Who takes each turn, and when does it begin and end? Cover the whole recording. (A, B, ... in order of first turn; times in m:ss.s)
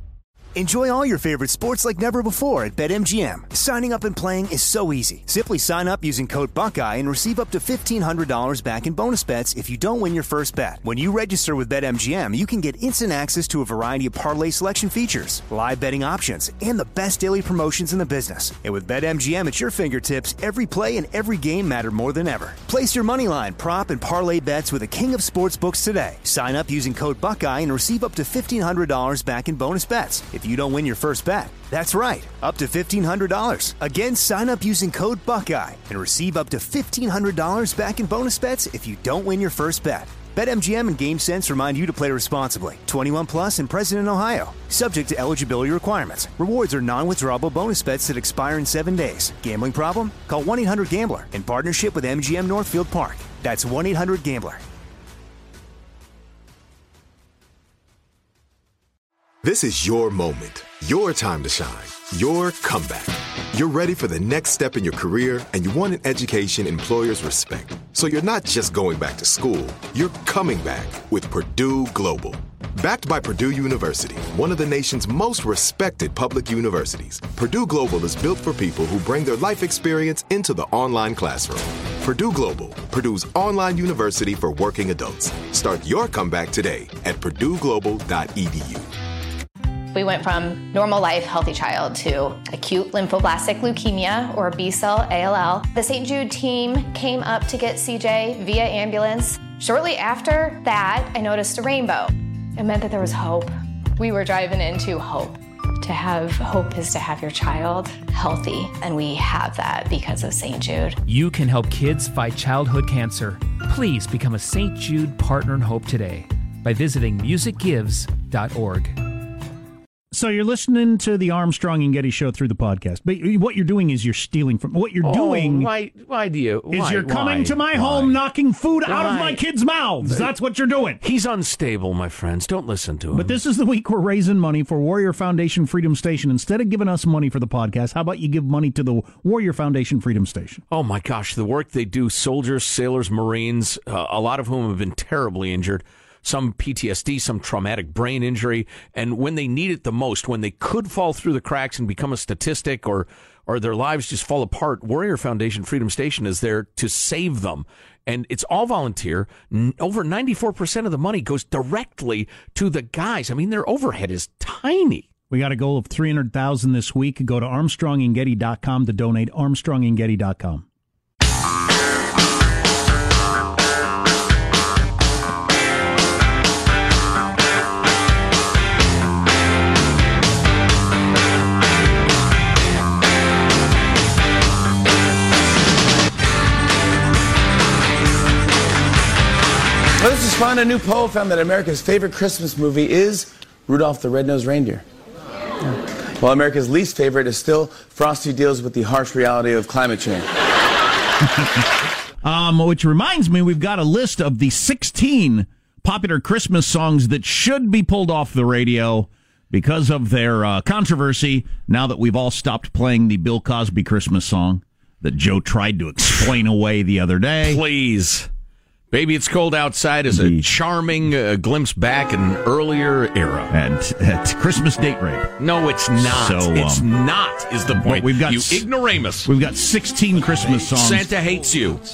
0:00.5-0:54.6 A
0:59.4-1:28.8 B
1:29.9-1:51.0 C
1:51.1-1:59.0 D
2:00.1-2:05.7 E
2:05.0-2:08.2 F
2:06.7-2:11.0 E
2:08.8-2:09.4 F
2:11.0-2:13.4 F
2:13.1-2:20.6 E
2:20.7-2:45.1 F
2:45.3-2:50.6 E
3:10.0-3:14.8 G
3:16.2-3:20.2 G
3:22.2-3:37.6 E
3:37.4-3:38.3 F
3:38.9-3:43.5 F
3:40.1-3:40.5 E
3:43.5-3:45.3 E
3:45.4-3:49.3 F
3:46.0-3:46.9 E
3:47.8-3:48.7 E
3:49.2-3:51.1 E
3:50.5-3:51.8 F